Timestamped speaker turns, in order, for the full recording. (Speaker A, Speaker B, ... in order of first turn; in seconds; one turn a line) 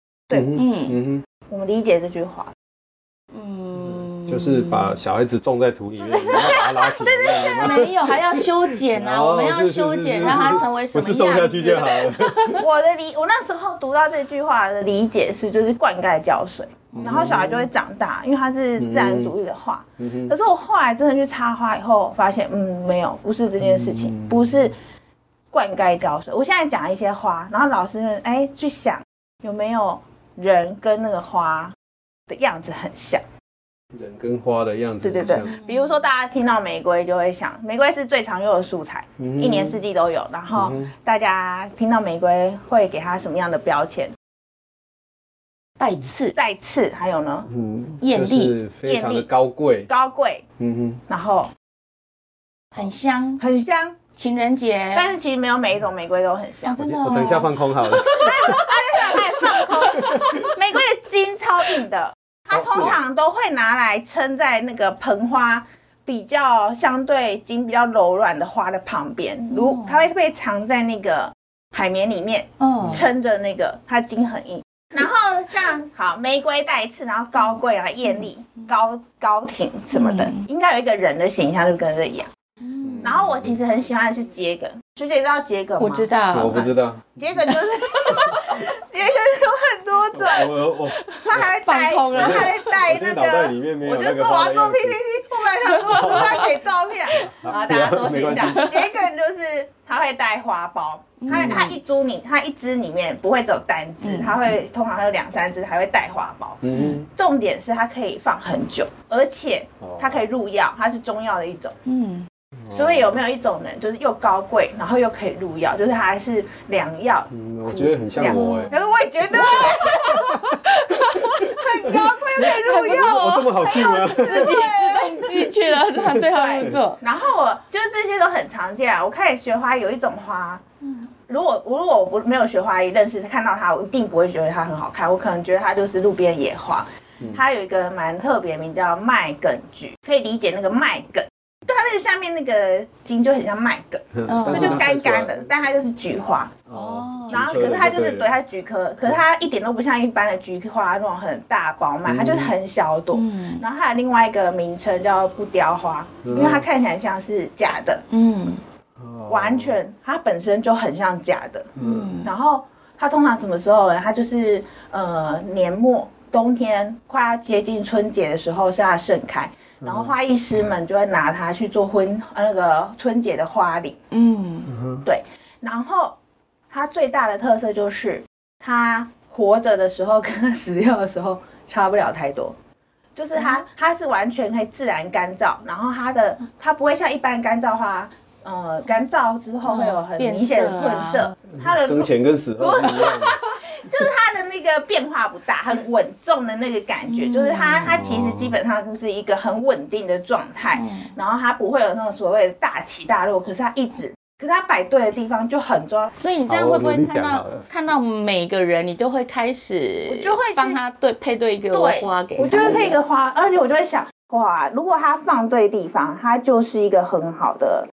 Speaker A: 0.3-0.6
Speaker B: 0.3-1.2
Speaker C: 0.5-1.0
Speaker A: 1.5-2.5
Speaker C: 3.3-5.0
Speaker B: 3.9-8.0
Speaker A: 6.0-7.9
Speaker C: 7.5-12.6
Speaker B: 8.9-12.6
Speaker A: 12.5-24.8
Speaker C: 16.9-17.4
Speaker B: 16.9-17.7
Speaker B: 18.8-19.3
Speaker B: 20.0-20.3
Speaker A: 25.5-31.7
Speaker A: 32.3-33.2
Speaker B: 33.9-35.5
Speaker A: 35.0-44.1
Speaker C: 35.2-36.0
Speaker B: 39.2-39.8
Speaker B: 40.5-40.9
Speaker C: 45.8-46.4
Speaker A: 46.3-47.5
Speaker B: 47.5-49.9
Speaker C: 48.0-48.6
Speaker A: 48.9-49.3
Speaker A: 49.9-50.4
Speaker B: 50.6-51.0
Speaker A: 51.1-51.5
Speaker C: 52.8-53.4
Speaker A: 53.4-54.0
Speaker C: 54.2-55.1
Speaker A: 54.9-56.8
Speaker C: 56.6-60.4
Speaker B: 56.8-58.6
Speaker A: 58.1-82.3
Speaker B: 62.5-63.0
Speaker C: 69.5-70.1
Speaker C: 72.6-73.1
Speaker B: 72.8-73.1
Speaker C: 79.9-80.4
Speaker C: 82.6-83.2
Speaker B: 82.8-83.6
Speaker A: 83.0-90.5
Speaker C: 85.8-86.7
Speaker B: 86.3-87.1
Speaker B: 90.1-91.5
Speaker C: 91.2-92.7
Speaker A: 91.2-111.8
Speaker B: 92.1-95.0
Speaker B: 95.8-96.5
Speaker C: 95.9-96.3
Speaker B: 97.2-98.7
Speaker C: 98.3-98.7
Speaker C: 101.2-101.8
Speaker B: 101.3-101.8
Speaker C: 104.0-104.4
Speaker B: 106.6-107.1
Speaker C: 106.7-107.0
Speaker B: 109.8-110.2
Speaker C: 111.9-112.3
Speaker B: 112.7-113.2
Speaker A: 112.7-120.2
Speaker B: 117.3-118.7
Speaker C: 118.2-127.0
Speaker A: 121.3-125.5
Speaker B: 121.9-124.6
Speaker B: 126.0-126.8
Speaker A: 126.3-130.6
Speaker A: 131.3-146.6
Speaker B: 144.1-145.4
Speaker C: 144.3-144.9
Speaker B: 146.7-148.3
Speaker C: 146.7-147.9
Speaker A: 147.3-158.0
Speaker B: 152.1-152.5
Speaker C: 153.1-153.6
Speaker B: 156.2-156.6
Speaker C: 158.1-158.6
Speaker B: 159.0-159.8
Speaker A: 159.3-161.7
Speaker B: 161.8-162.1
Speaker C: 161.8-162.3
Speaker A: 162.2-174.0
Speaker B: 169.8-170.1
Speaker C: 174.1-174.8
Speaker B: 174.8-175.0
Speaker A: 175.1-176.2
Speaker A: 176.7-182.5
Speaker A: 183.2-206.1
Speaker C: 183.4-183.6
Speaker C: 189.6-191.3
Speaker B: 191.6-193.4
Speaker C: 197.1-198.0
Speaker B: 197.9-198.5
Speaker C: 200.7-201.1
Speaker C: 206.2-212.9
Speaker B: 206.5-207.6
Speaker A: 210.1-210.8
Speaker A: 211.7-217.9